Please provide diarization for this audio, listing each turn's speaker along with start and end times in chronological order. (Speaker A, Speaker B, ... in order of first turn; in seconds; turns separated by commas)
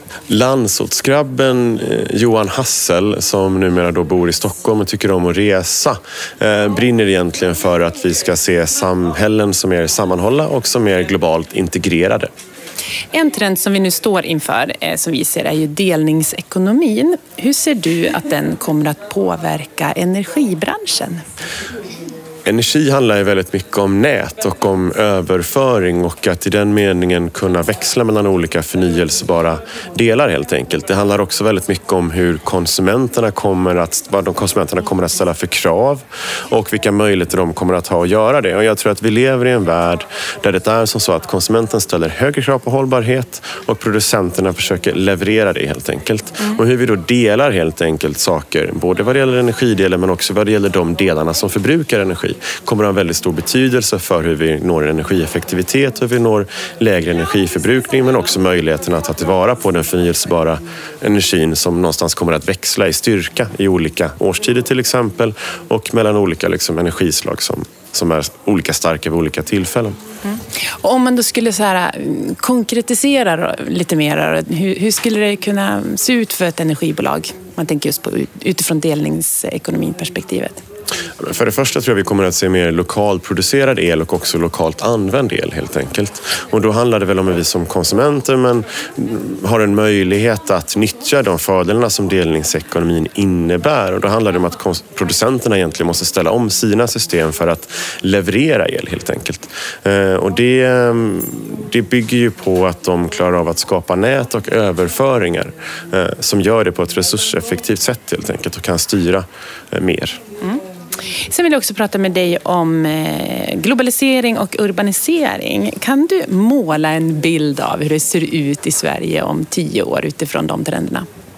Speaker A: 0.3-12.3, Speaker B: 13.1-21.2, Speaker A: 22.5-70.0, Speaker B: 70.3-80.6, Speaker A: 81.2-110.2, Speaker B: 111.3-121.1